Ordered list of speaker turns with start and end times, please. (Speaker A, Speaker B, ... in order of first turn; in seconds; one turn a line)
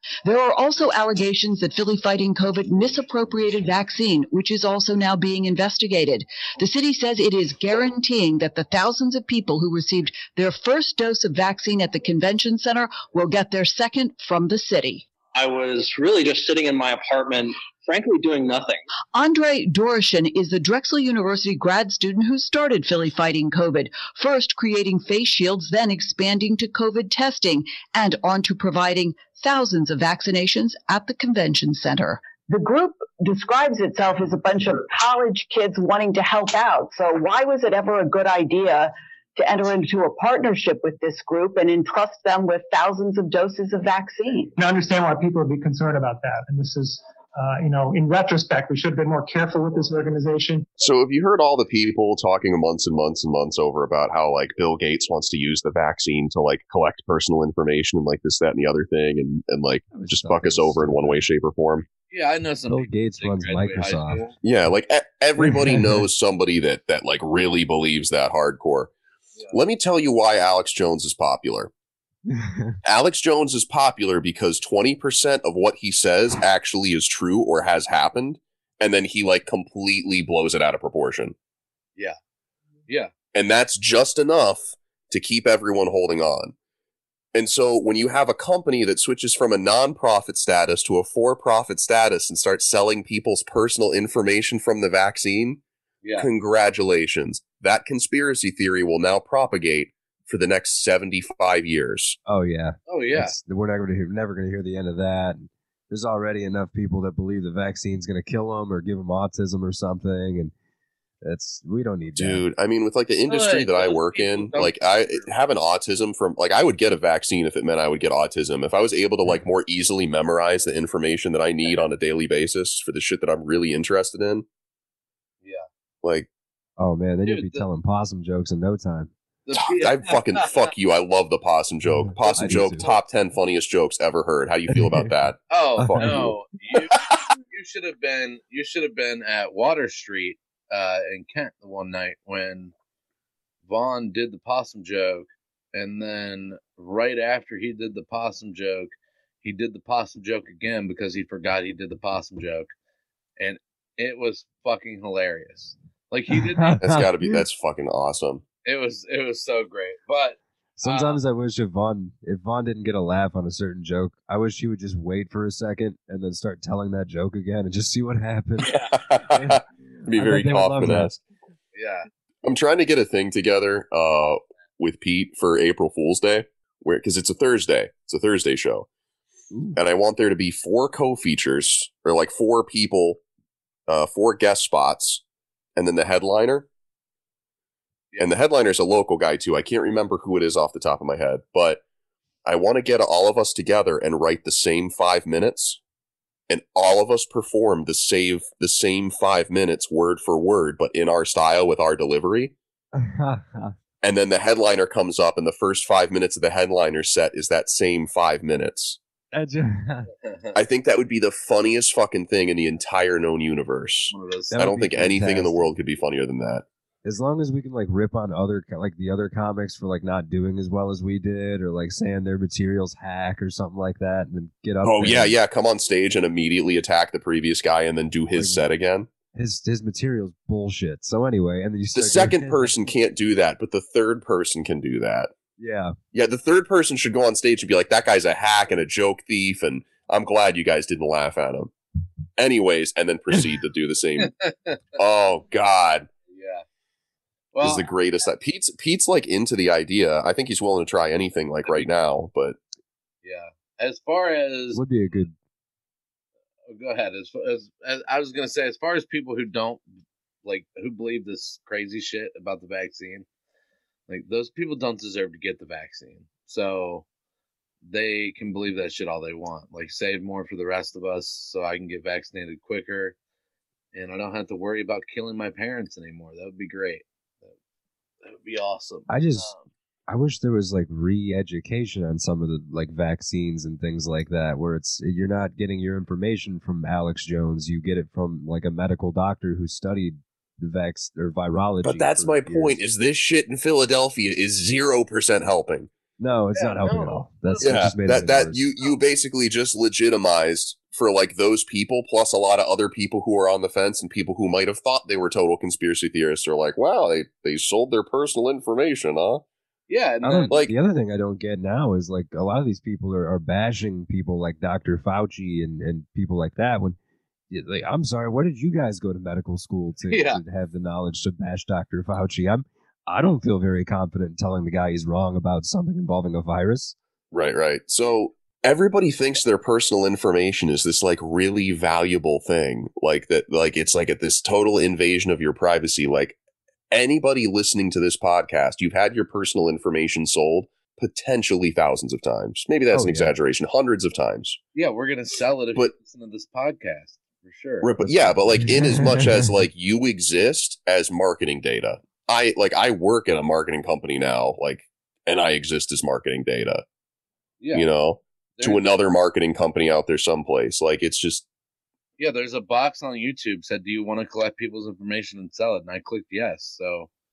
Speaker A: 0.2-15.1
Speaker B: 15.3-18.8
Speaker A: 19.1-44.5
Speaker C: 44.6-50.6
Speaker D: 50.8-61.9
Speaker E: 59.9-61.2
Speaker F: 62.1-64.3
Speaker E: 62.7-64.2
Speaker D: 64.4-68.9
Speaker E: 65.4-66.0
Speaker D: 69.5-71.7
Speaker E: 72.3-72.8
Speaker D: 72.8-81.3
Speaker D: 83.3-86.5
Speaker D: 87.3-95.6
Speaker F: 96.0-96.3
Speaker D: 96.2-102.2
Speaker E: 102.3-110.5
Speaker F: 102.9-103.3
Speaker E: 111.2-112.4
Speaker D: 112.2-124.5
Speaker F: 113.3-115.2
Speaker D: 126.0-126.3
Speaker E: 126.8-129.1
Speaker F: 127.3-127.6
Speaker F: 129.5-130.7
Speaker D: 129.6-136.3
Speaker E: 132.0-132.9
Speaker E: 134.7-135.1
Speaker F: 135.5-142.7
Speaker E: 135.8-136.3
Speaker F: 143.7-148.9
Speaker F: 149.4-152.7
Speaker F: 153.4-156.8
Speaker E: 156.3-157.4
Speaker D: 156.8-158.4
Speaker F: 158.6-161.2
Speaker E: 160.8-171.1
Speaker D: 168.7-171.2
Speaker F: 171.8-172.1
Speaker D: 172.4-178.9
Speaker E: 179.5-179.8
Speaker D: 179.8-183.2
Speaker D: 183.9-185.2
Speaker D: 185.8-186.7
Speaker D: 188.2-191.8
Speaker D: 192.4-195.8
Speaker D: 196.5-202.6
Speaker E: 202.9-203.7
Speaker D: 204.0-209.0
Speaker E: 209.3-210.1
Speaker F: 210.2-210.6
Speaker D: 210.6-216.7
Speaker F: 214.1-214.6
Speaker E: 214.5-215.7
Speaker E: 217.0-225.4
Speaker D: 224.8-229.1
Speaker E: 228.4-228.7
Speaker E: 229.3-232.8
Speaker D: 231.9-235.3
Speaker E: 235.6-235.9
Speaker D: 236.1-241.7
Speaker D: 242.4-244.3
Speaker F: 244.2-244.8
Speaker D: 245.0-246.1
Speaker F: 246.3-246.6
Speaker F: 247.6-247.8
Speaker D: 247.6-252.6
Speaker F: 253.2-255.2
Speaker E: 254.7-255.3
Speaker F: 256.7-259.8
Speaker F: 260.4-263.2
Speaker F: 264.1-267.1
Speaker F: 267.8-273.1
Speaker F: 273.9-277.5
Speaker F: 278.2-279.7
Speaker E: 279.1-279.5
Speaker E: 280.1-292.8
Speaker D: 291.8-295.9
Speaker E: 296.2-298.7
Speaker F: 296.5-297.8
Speaker D: 297.6-309.4
Speaker F: 309.9-310.6
Speaker E: 310.2-317.0
Speaker E: 317.5-326.9
Speaker F: 320.1-320.4
Speaker D: 327.3-336.4
Speaker D: 336.9-344.6
Speaker E: 342.9-343.3
Speaker F: 344.8-347.9
Speaker D: 347.8-356.8
Speaker E: 348.0-349.5
Speaker F: 357.6-357.9
Speaker D: 357.7-361.5
Speaker F: 358.6-358.9
Speaker F: 362.2-367.1